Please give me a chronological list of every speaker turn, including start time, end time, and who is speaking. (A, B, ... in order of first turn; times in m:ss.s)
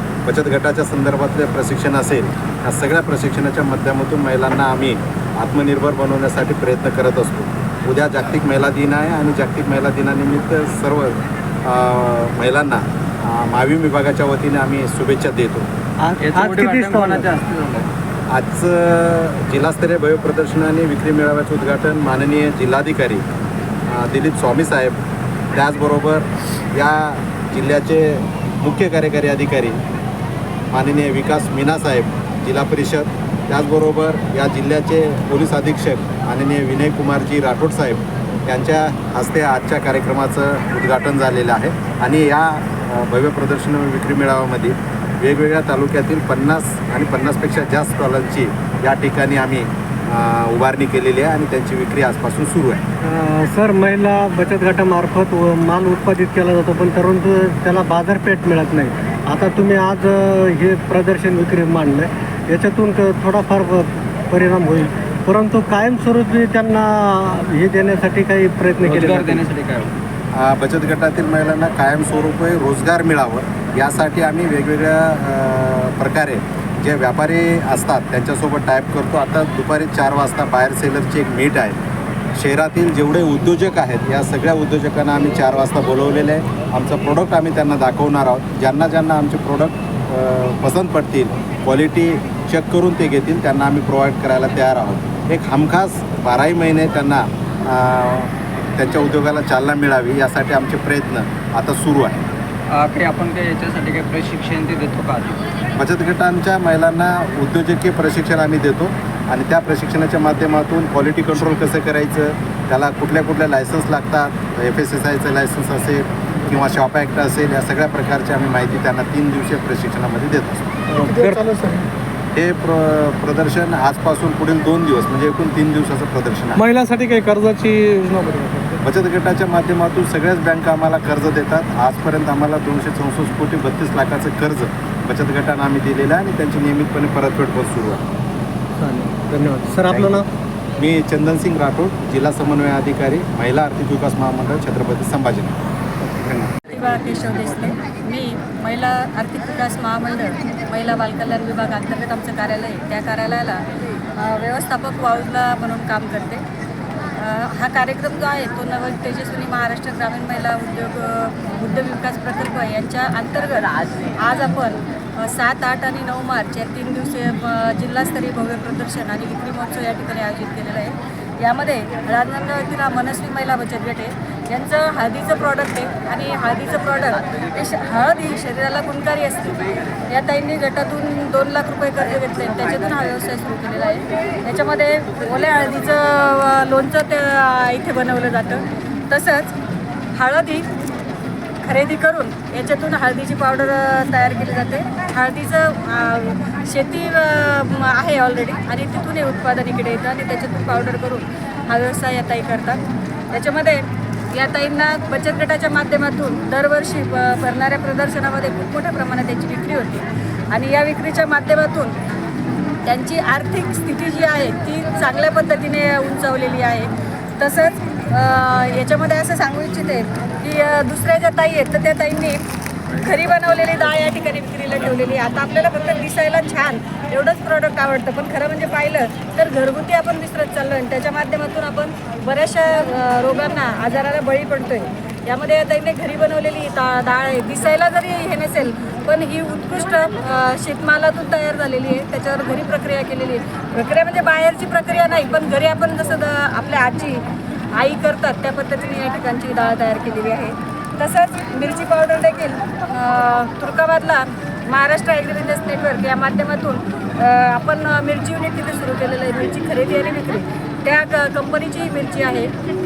0:00.3-0:15.7 A
0:16.0-0:17.3 B
0:16.2-0:17.9 C
0:18.3-0:23.2 A
0:23.9-0:25.0 A
0:25.5-0:29.8 A
0:30.7-0:52.8 A
0:53.0-1:09.5 B
1:08.8-1:09.9 C
1:10.3-1:21.8 A
1:22.4-1:42.2 A
1:42.7-1:45.5 C
1:45.7-2:00.7 A
2:00.9-2:01.4 B
2:00.9-2:01.9 D
2:02.4-2:06.6 A
2:06.6-2:08.8 D
2:08.8-2:18.0 A
2:18.8-2:20.3 B
2:20.8-2:25.6 A
2:26.0-2:26.5 B
2:26.7-2:33.6 E
2:34.2-2:36.4 E
2:37.2-3:09.6 E
3:10.2-3:10.7 E
3:11.6-3:32.0 E
3:32.8-3:42.4 E
3:43.0-4:07.2 E
4:07.8-4:22.5 E